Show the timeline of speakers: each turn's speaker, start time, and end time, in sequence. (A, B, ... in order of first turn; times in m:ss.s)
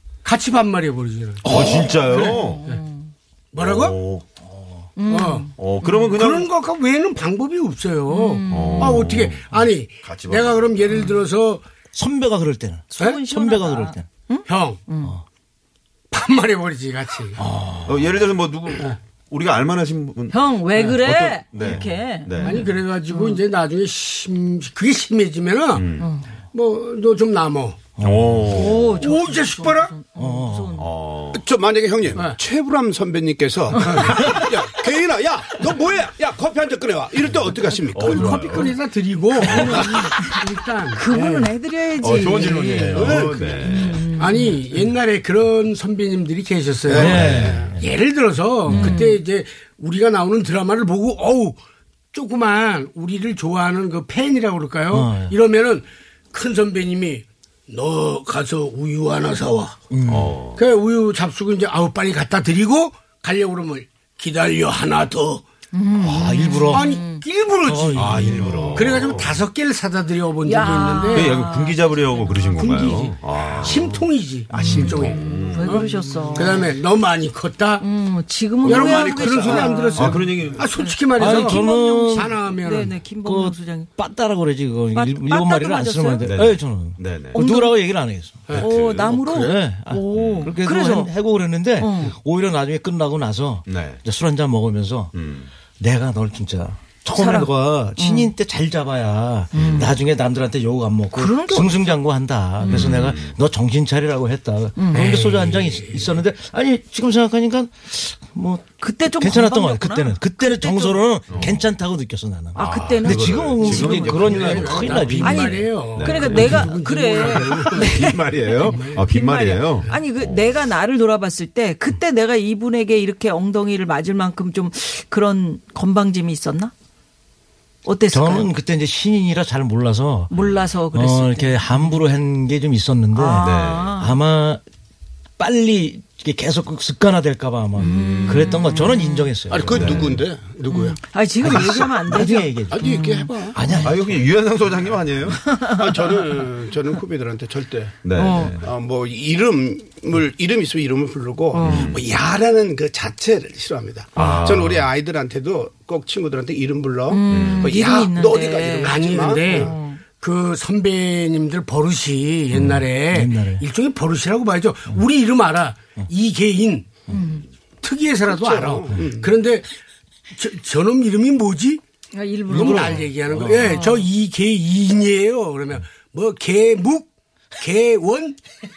0:00.2-0:02.8 A
0:01.4-0:02.6 B
0:02.1-0:03.1 C
0:03.5-0:04.0 A
0:03.6-0:04.2 B
0:04.4-0:04.9 D
0:05.0-0:06.1 C
0:05.1-0:11.6 A
0:05.6-0:06.5 B
0:08.1-0:09.1 C
0:08.5-0:09.5 B
0:10.0-0:11.0 B
0:11.9-0:14.1 D
0:12.9-0:15.2 C
0:14.5-0:14.8 A
0:16.1-0:17.4 A
0:17.4-0:18.1 D
0:17.8-0:22.6 B
0:20.3-0:23.4 C
0:22.4-0:25.9 A
0:25.7-0:26.1 B
0:26.0-0:26.3 C
0:26.5-0:27.8 A
0:28.0-0:28.4 D
0:28.0-0:28.9 B
0:28.5-0:30.9 C
0:28.8-0:30.0 A
0:30.2-0:30.8 D
0:30.8-0:31.5 B
0:31.3-0:38.6 E
0:34.0-0:34.4 B
0:37.9-0:38.7 B
0:38.0-0:41.5 A
0:38.2-0:38.6 C
0:39.4-0:44.6 C
0:42.0-0:44.1 B
0:42.7-0:43.3 A
0:42.9-0:43.9 E
0:44.1-0:51.6 A
0:46.9-0:47.7 E
0:46.9-0:47.7 B
0:46.9-0:47.8 D
0:48.7-0:49.2 C
0:48.7-0:49.0 D
0:52.1-0:59.8 A
0:54.9-0:55.3 D
0:59.9-1:00.3 D
1:00.1-1:00.6 B
1:00.6-1:05.4 A
1:05.7-1:07.2 C
1:06.0-1:07.0 D
1:06.7-1:11.4 A
1:07.6-1:08.9 D
1:07.9-1:09.4 B
1:10.4-1:12.9 C
1:11.1-1:15.9 B
1:12.6-1:17.8 A
1:14.6-1:16.7 C
1:17.8-1:23.9 C
1:18.6-1:23.0 A
1:18.7-1:19.8 E
1:19.9-1:20.7 B
1:21.1-1:22.4 D
1:23.2-1:28.6 D
1:24.9-1:26.4 C
1:26.2-1:27.4 B
1:27.3-1:27.8 C
1:28.5-1:31.1 C
1:28.5-1:29.1 B
1:29.2-1:35.1 D
1:30.1-1:30.5 B
1:31.8-1:32.2 C
1:33.7-1:34.0 B
1:35.1-1:35.5 B
1:35.8-1:55.7 D
1:37.1-1:38.3 C
1:39.5-1:39.9 C
1:39.5-1:39.9 B
1:41.1-1:41.8 C
1:42.6-1:43.1 C
1:42.7-1:43.3 B
1:44.8-1:45.1 C
1:44.9-1:46.2 A
1:48.8-1:51.4 C
1:51.3-1:51.6 B
1:52.5-1:54.4 C
1:52.6-1:55.3 B
1:53.8-1:58.1 A
1:55.2-2:06.7 C
1:55.9-1:56.7 B
1:57.2-2:00.5 B
1:58.6-1:59.0 A
2:07.8-2:08.5 C
2:08.1-2:10.3 D
2:10.3-2:12.0 C
2:10.9-2:14.6 D
2:13.1-2:14.2 C
2:13.4-2:14.0 B
2:15.4-2:20.1 D
2:17.8-2:18.6 B
2:17.8-2:19.3 C
2:19.5-2:22.0 E
2:19.6-2:20.2 B
2:20.7-2:23.9 C
2:21.4-2:23.0 D
2:22.7-2:23.6 E
2:23.5-2:24.2 D
2:23.8-2:25.4 B
2:25.4-2:26.2 C
2:25.7-2:39.7 E
2:28.0-2:28.6 B
2:28.1-2:28.6 C
2:31.5-2:31.9 C
2:31.6-2:32.0 B
2:34.2-2:34.9 B
2:37.1-2:40.0 C
2:37.3-2:37.7 B
2:38.7-2:46.9 A
2:42.5-2:43.6 D
2:47.1-2:47.4 C
2:47.8-2:49.7 A
2:48.3-2:49.4 E
2:50.3-2:51.8 A
2:52.1-2:54.1 C
2:52.5-2:58.4 A
2:52.5-2:53.8 D